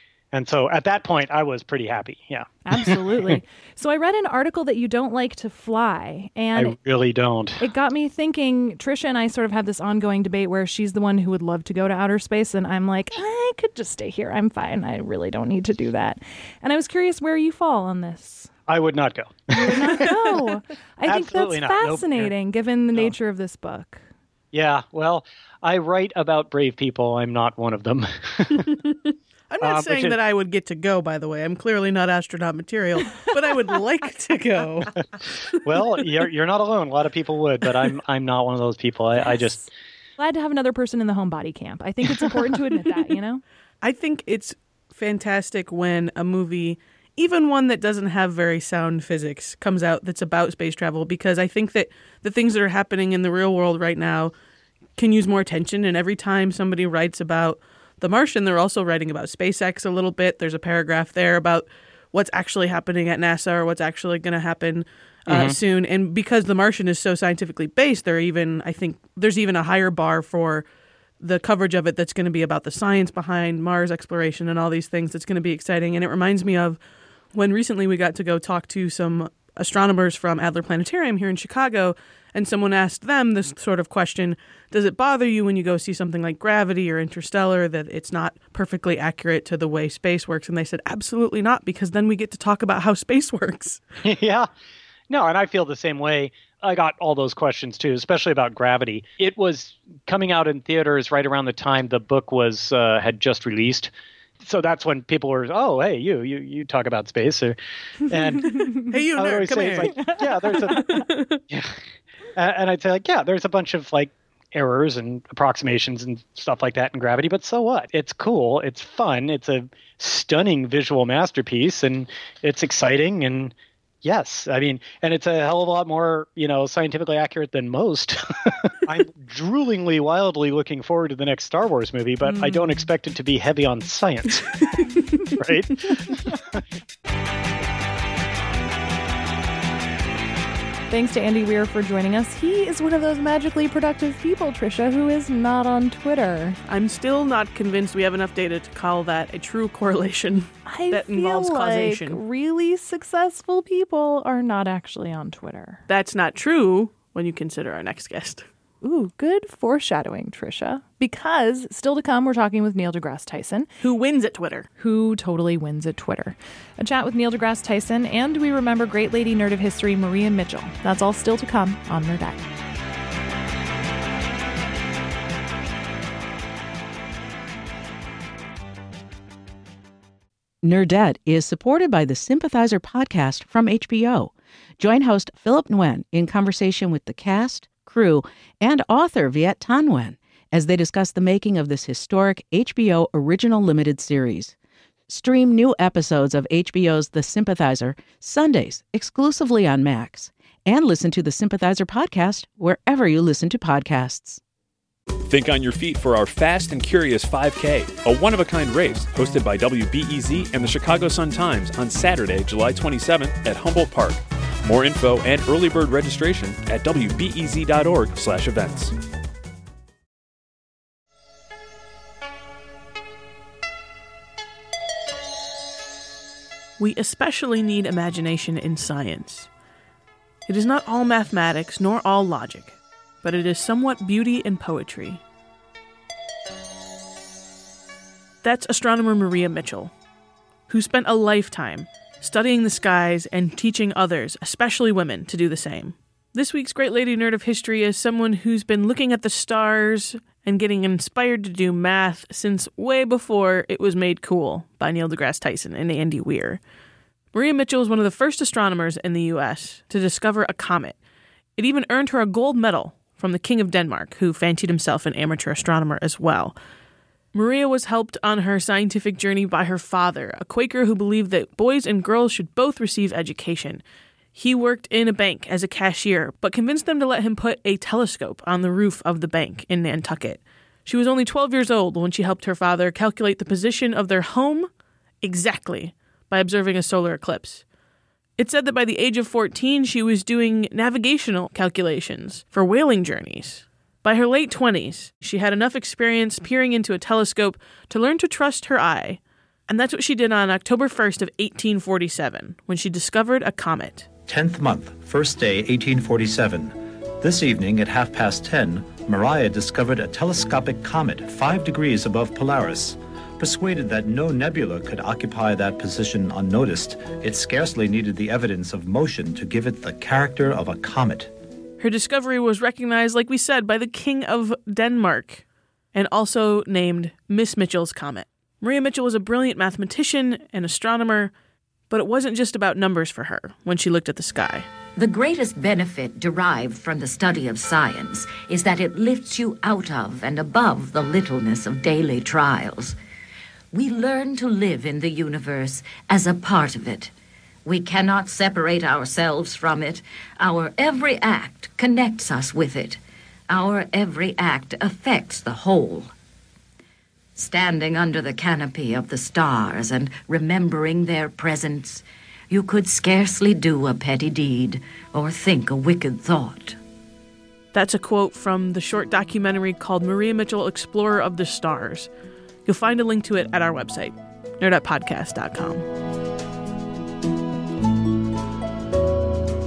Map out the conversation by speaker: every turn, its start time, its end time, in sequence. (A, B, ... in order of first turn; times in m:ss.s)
0:00.3-0:03.4 A
0:02.7-0:06.8 B
0:06.6-0:07.6 A
0:07.6-0:18.5 B
0:18.7-0:20.4 A
0:19.5-0:24.0 B
0:21.1-0:22.3 A
0:24.5-0:28.8 A
0:28.6-0:35.0 C
0:29.6-0:30.2 A
0:35.6-0:39.6 A
0:39.2-0:43.4 B
0:43.8-0:54.3 C
0:55.0-1:10.6 C
1:05.3-1:05.6 A
1:11.2-1:16.8 C
1:17.3-1:33.8 C
1:34.0-1:34.5 A
1:35.1-1:43.9 A
1:44.4-1:51.8 A
1:48.4-1:49.0 B
1:48.9-1:51.4 C
1:49.9-1:51.0 B
1:52.4-2:14.6 A
2:12.3-2:12.6 B
2:15.4-2:16.4 A
2:20.9-2:26.6 B
2:26.7-2:32.2 C
2:30.7-2:35.8 B
2:35.9-2:38.5 C
2:38.8-2:43.7 B
2:43.8-2:44.7 C
2:44.8-2:52.4 B
3:00.6-3:14.6 D
3:15.1-3:24.4 D
3:25.3-3:38.9 E
3:46.8-3:49.5 C
3:50.5-3:55.2 C
3:58.4-3:59.9 C
4:00.7-4:16.6 C
4:17.3-4:21.0 C
4:21.6-4:26.6 C
4:27.3-4:33.8 C
4:34.4-4:44.7 C
4:45.2-4:47.6 C
4:48.4-5:04.1 C
5:04.3-5:21.3 F
5:21.8-5:25.4 C
5:25.9-5:31.3 C
5:31.9-5:34.7 C
5:35.0-5:43.0 G
5:43.7-5:47.1 G
5:47.7-5:56.1 G
5:57.4-6:06.8 G
6:07.7-6:12.1 C
6:12.6-6:15.9 C